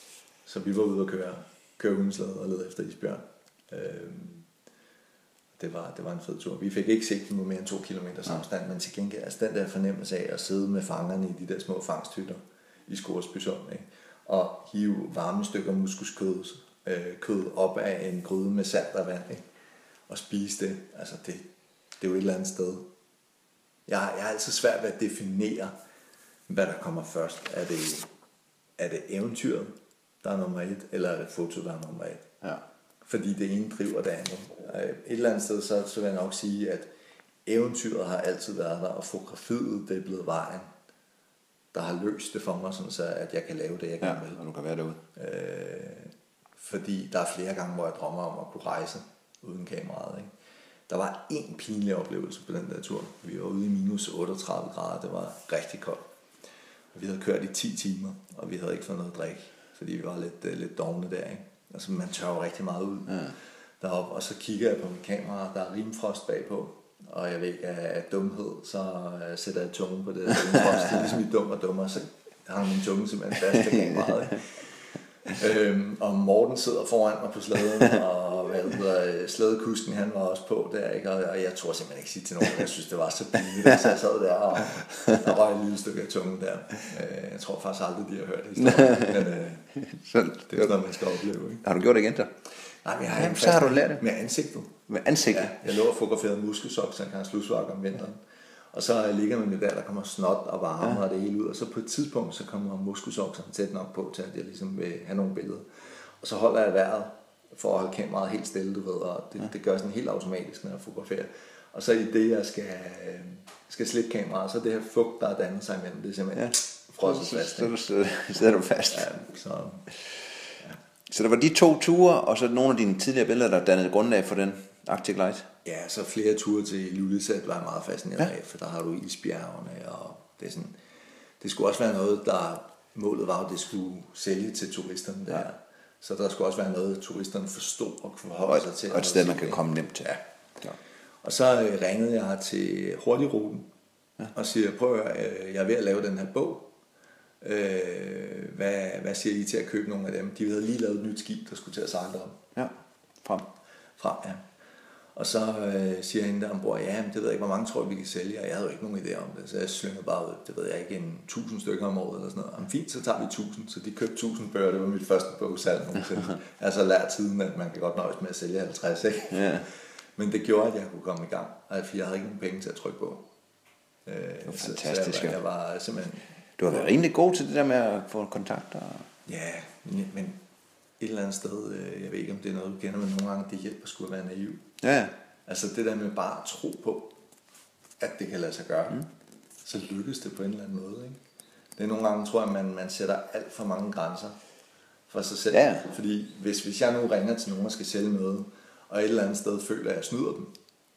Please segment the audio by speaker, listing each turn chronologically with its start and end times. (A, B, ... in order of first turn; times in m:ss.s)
0:00.4-0:04.5 A
0:05.6-0:19.4 A
0:20.1-0:21.5 A
0:22.0-0:22.9 A
0:23.9-0:25.7 A
0:26.5-0:28.1 A
0:28.8-0:32.3 A
0:33.0-0:36.9 A
0:37.4-0:40.7 A
0:41.7-0:44.4 A
0:44.0-0:45.0 B
0:45.2-0:50.3 A
0:50.9-0:56.1 A
0:56.9-1:29.7 A
1:28.7-1:29.2 B
1:29.8-1:30.7 B
1:30.5-1:31.6 A
1:31.6-1:32.3 B
1:32.8-1:57.8 A
1:33.1-1:34.0 B
1:34.9-1:35.6 B
1:56.4-1:59.1 B
1:58.9-1:59.9 A
2:01.1-2:05.5 B
2:05.6-2:10.7 A
2:11.4-2:20.2 A
2:18.5-2:20.8 B
2:21.2-2:23.7 A
2:24.3-2:26.7 A
2:27.4-2:32.4 A
2:34.0-2:34.4 A
2:35.2-2:53.3 A
2:49.3-2:49.7 B
2:54.0-2:56.8 A
2:54.5-2:55.4 B
2:56.6-2:59.1 B
2:59.3-3:00.4 A
3:01.0-3:04.7 A
3:04.8-3:05.1 B
3:05.5-3:07.2 A
3:08.0-3:09.0 A
3:09.6-3:11.2 A
3:11.8-3:14.4 A
3:15.1-3:20.5 A
3:15.5-3:15.9 B